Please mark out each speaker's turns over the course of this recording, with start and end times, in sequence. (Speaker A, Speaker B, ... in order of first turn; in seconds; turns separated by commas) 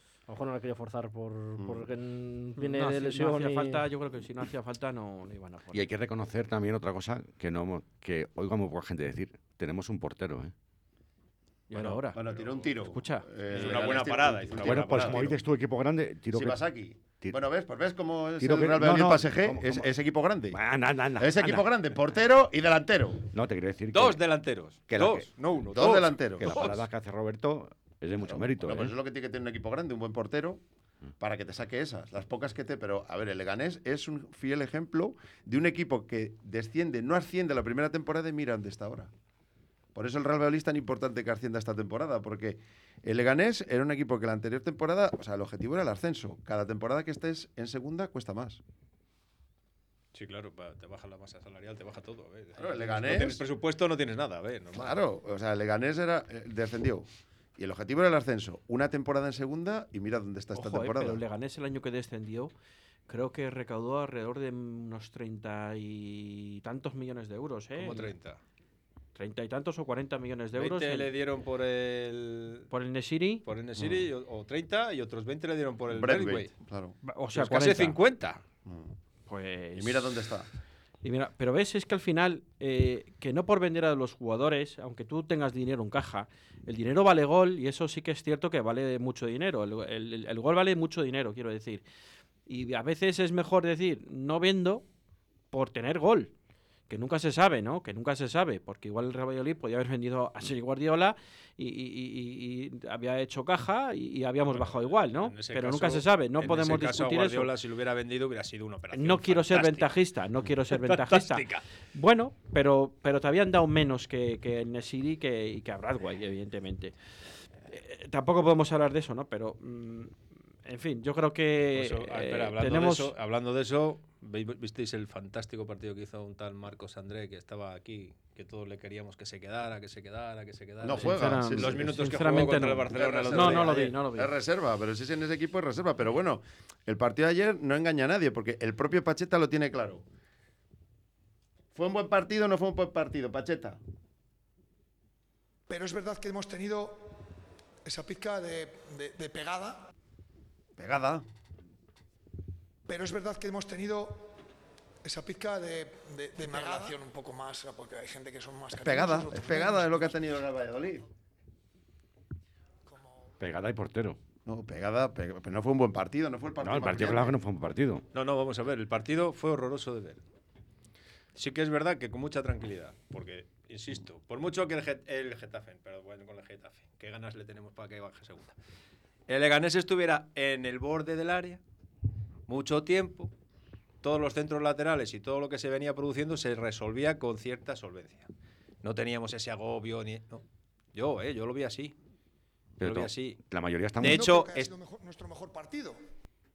Speaker A: 0.3-3.8, Speaker B: 1.6-1.9, Speaker C: 2.6-5.8, Speaker D: 5.7-10.5, Speaker C: 11.7-12.2, Speaker B: 12.1-15.4, Speaker E: 12.2-12.7, Speaker C: 12.8-13.7, Speaker E: 13.5-15.3, Speaker D: 14.6-16.6, Speaker B: 16.3-20.6, Speaker D: 18.4-19.9, Speaker D: 20.5-21.8, Speaker B: 21.2-23.2, Speaker D: 23.3-24.2, Speaker E: 23.9-26.8, Speaker D: 24.9-25.3, Speaker B: 25.7-26.7, Speaker D: 26.4-28.9, Speaker B: 28.3-30.6, Speaker B: 31.2-39.1, Speaker B: 39.9-48.6, Speaker E: 50.1-55.0, Speaker B: 52.5-53.4, Speaker B: 54.7-57.0, Speaker B: 57.6-61.2, Speaker C: 60.5-62.5, Speaker C: 63.1-68.1, Speaker E: 67.7-68.4, Speaker C: 69.1-71.1, Speaker E: 70.5-72.7, Speaker C: 72.7-73.5, Speaker E: 73.4-76.5, Speaker B: 73.8-74.1, Speaker B: 75.9-77.0, Speaker C: 77.0-78.0, Speaker E: 77.3-78.4, Speaker B: 78.6-78.9, Speaker C: 79.3-80.3, Speaker B: 79.8-80.5, Speaker C: 81.0-91.8, Speaker C: 92.5-94.8, Speaker C: 95.5-96.3, Speaker C: 96.9-107.5, Speaker E: 104.5-110.0, Speaker C: 108.9-116.9, Speaker E: 110.7-111.6, Speaker C: 117.7-120.1, Speaker C: 120.6-123.1, Speaker E: 121.7-134.0, Speaker B: 130.8-132.0, Speaker C: 130.9-134.3, Speaker B: 132.9-140.0, Speaker B: 141.7-143.8, Speaker F: 145.7-147.1, Speaker F: 147.8-149.8, Speaker B: 150.8-151.2, Speaker F: 152.9-154.3, Speaker F: 155.0-160.2, Speaker B: 158.8-161.1, Speaker F: 162.8-163.3, Speaker D: 163.4-164.2, Speaker B: 164.4-167.4, Speaker D: 166.6-168.0, Speaker E: 168.1-170.2, Speaker E: 171.3-178.6, Speaker E: 179.3-181.6, Speaker E: 182.5-183.3, Speaker E: 184.0-188.3, Speaker E: 188.8-191.9, Speaker E: 192.8-193.4, Speaker D: 192.8-194.3, Speaker E: 194.0-194.7, Speaker F: 194.0-196.0